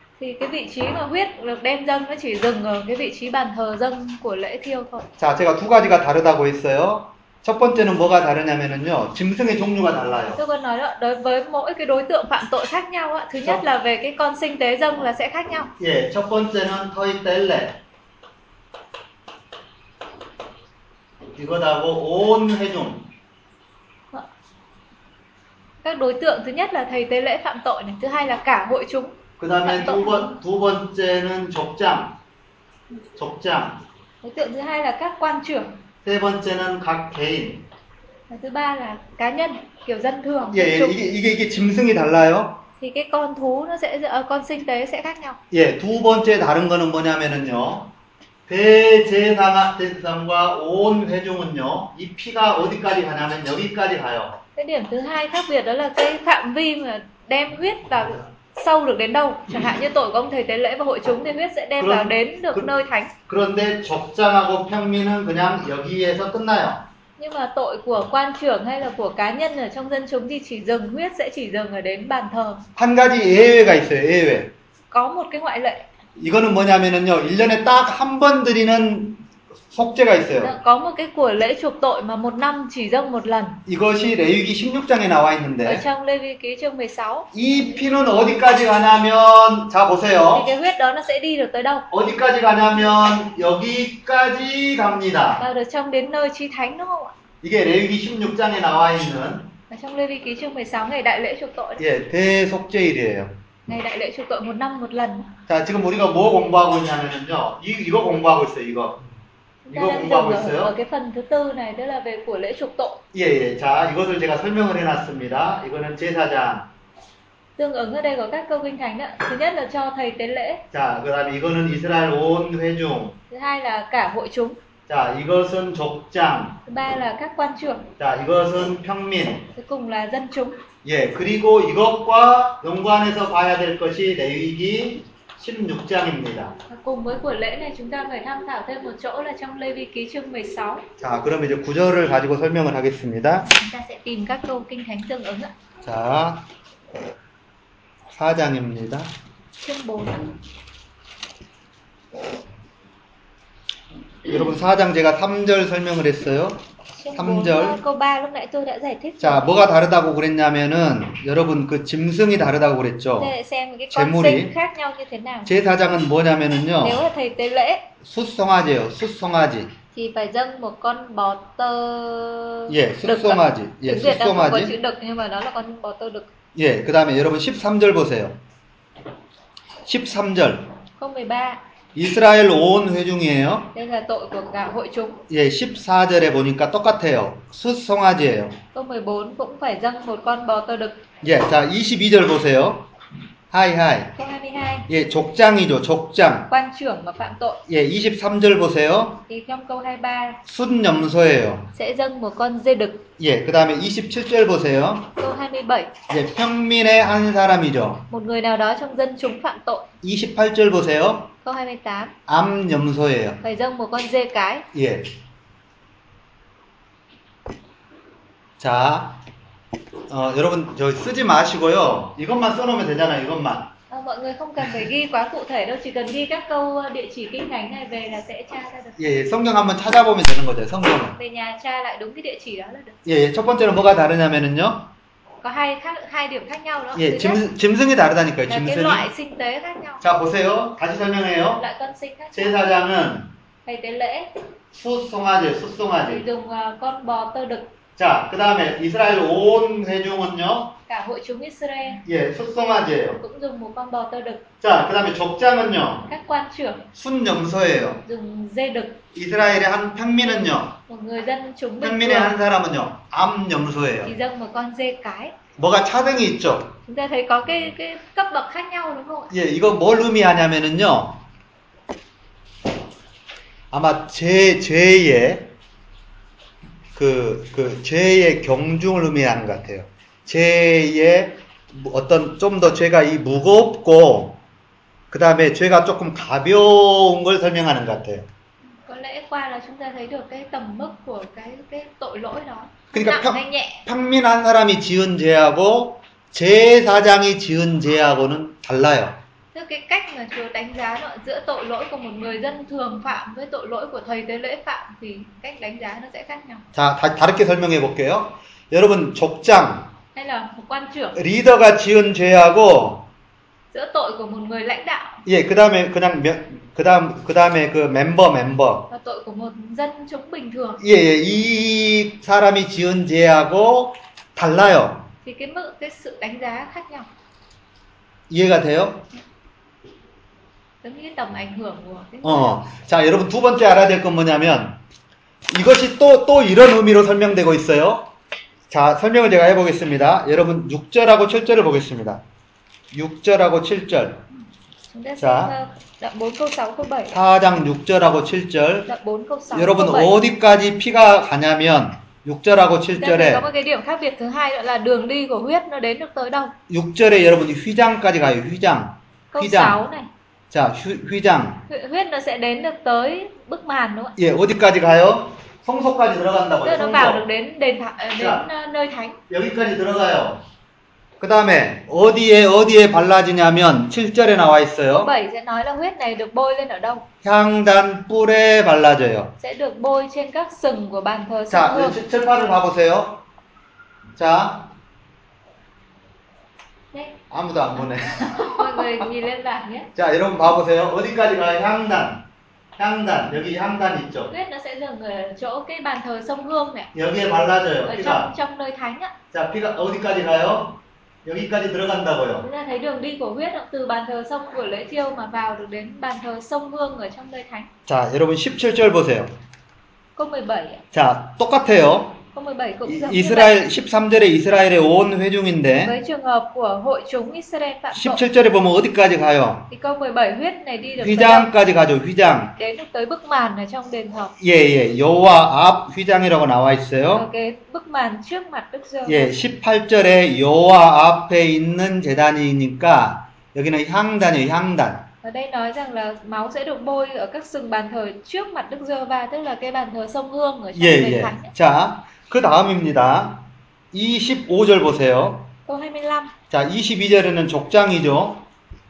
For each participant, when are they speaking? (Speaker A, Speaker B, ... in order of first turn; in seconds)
Speaker A: 0.2-5.0, 10.3-15.7, 25.8-30.3, 34.2-35.7, 38.3-40.9, 42.8-45.4, 54.5-63.1, 67.2-72.6, 74.9-75.8, 80.4-83.6, 85.6-87.3, 90.3-91.9, 95.4-97.1, 99.7-101.8, 103.7-105.3, 109.7-113.0, 117.6-120.6, 123.3-124.6, 126.7-127.9, 129.6-130.6, 136.7-140.8, 143.4-145.5, 149.6-150.3, 156.9-159.4, 163.2-165.5, 166.8-167.9, 169.9-176.3, 181.0-181.6, 183.7-185.2, 188.7-191.0, 194.2-194.9, 196.5-197.6, 199.3-200.4, 201.7-203.1, 205.2-205.9, 208.1-209.9, 211.4-212.1, 213.4-214.7, 223.9-229.0, 231.2-233.0, 235.4-237.4, 238.5-240.0, 241.6-242.6, 243.7-244.3, 246.0-247.7, 250.9-252.0, 253.1-254.4, 256.1-256.8, 258.0-259.0, 260.9-262.4, 264.0-265.4, 266.9-269.3, 288.9-293.8, 299.5-306.7, 310.1-311.2, 313.7-315.2, 318.9-320.8, 325.2-327.1, 330.8-332.6, 344.9-347.2, 348.9-350.2, 353.0-356.5, 359.3-360.1, 361.7-364.1, 366.6-369.2, 374.9-377.1, 379.4-382.0, 388.2-389.9, 394.3-396.9, 397.8-399.1, 402.4-407.7, 410.1-410.8, 412.3-413.5, 415.8-418.2, 419.7-421.5, 422.6-424.3, 427.1-429.3, 435.2-441.5, 445.7-446.3
Speaker B: 5.2-10.4, 15.8-17.8, 21.4-23.0, 29.4-32.1, 33.1-33.8, 36.0-37.6, 40.5-42.6, 45.5-47.9, 48.5-54.4, 61.8-62.7, 63.3-66.8, 72.8-74.5, 76.2-80.5, 83.7-85.8, 87.3-90.5, 91.9-95.4, 97.4-99.5, 101.8-103.3, 105.5-109.0, 109.7-110.7, 113.1-116.7, 120.7-123.1, 124.9-126.6, 128.0-129.5, 130.8-136.5, 141.0-143.5, 145.8-146.4, 148.1-149.1, 154.2-156.6, 157.1-157.8, 159.2-163.3, 163.9-164.5, 165.4-167.0, 168.0-169.7, 172.7-174.7, 176.5-178.4, 179.8-180.7, 181.9-183.7, 185.3-188.6, 191.2-192.8, 193.5-194.1, 194.9-196.5, 197.7-199.2, 200.4-201.7, 203.2-205.1, 206.1-208.0, 210.0-211.3, 212.3-213.4, 214.7-215.1, 218.6-219.2, 220.1-223.7, 229.0-231.2, 233.0-234.9, 236.9-239.0, 240.0-241.6, 242.3-243.3, 244.7-246.2, 248.0-250.7, 252.0-253.2, 254.6-256.1, 256.9-258.0, 259.1-260.7, 261.8-264.1, 265.6-266.8, 269.3-271.2, 273.7-275.5, 276.9-284.4, 285.1-288.2, 292.9-299.1, 306.7-309.9, 311.1-313.1, 315.2-318.9, 320.8-325.1, 328.3-329.0, 332.2-334.8, 335.5-338.1, 338.7-342.2, 342.9-344.2, 345.2-345.5, 347.1-348.9, 349.5-353.4, 356.7-359.8, 360.5-361.6, 364.2-367.2, 368.2-368.4, 369.3-370.4, 371.2-375.1, 377.2-379.3, 381.5-383.2, 384.2-384.7, 387.3-388.9, 389.9-392.2, 392.8-394.3, 396.9-398.3, 399.3-402.4, 407.9-409.3, 410.9-412.2, 412.9-415.9, 417.9-419.7, 421.0-422.5, 424.4-427.2, 429.0-435.1, 440.7-445.5, 446.5-448.4